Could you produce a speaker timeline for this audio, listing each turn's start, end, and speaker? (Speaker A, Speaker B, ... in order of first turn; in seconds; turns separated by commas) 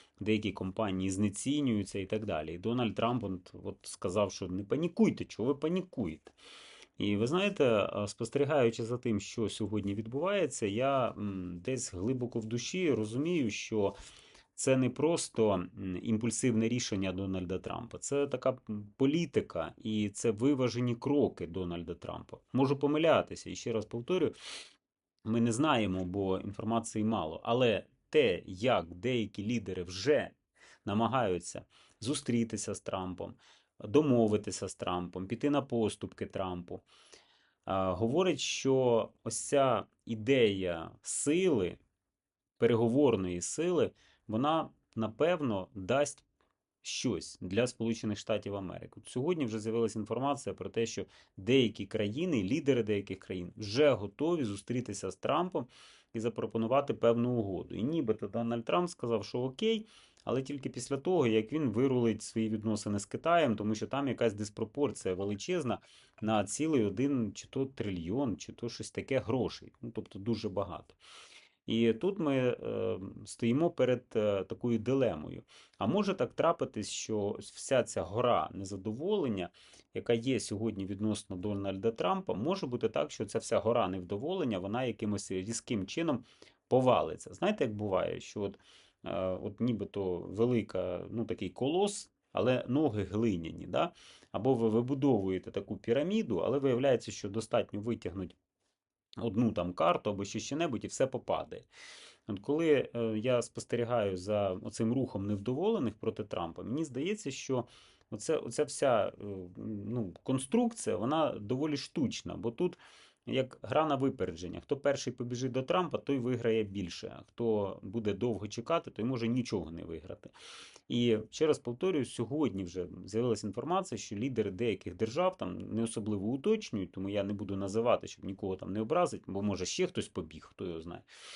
Speaker A: 0.2-6.3, Speaker A: 7.0-13.9, Speaker A: 14.6-24.3, Speaker A: 25.2-36.8, Speaker A: 37.7-41.8, Speaker A: 42.6-46.2, Speaker A: 46.8-71.0, Speaker A: 71.7-98.4, Speaker A: 99.2-101.7, Speaker A: 102.3-120.3, Speaker A: 120.9-131.1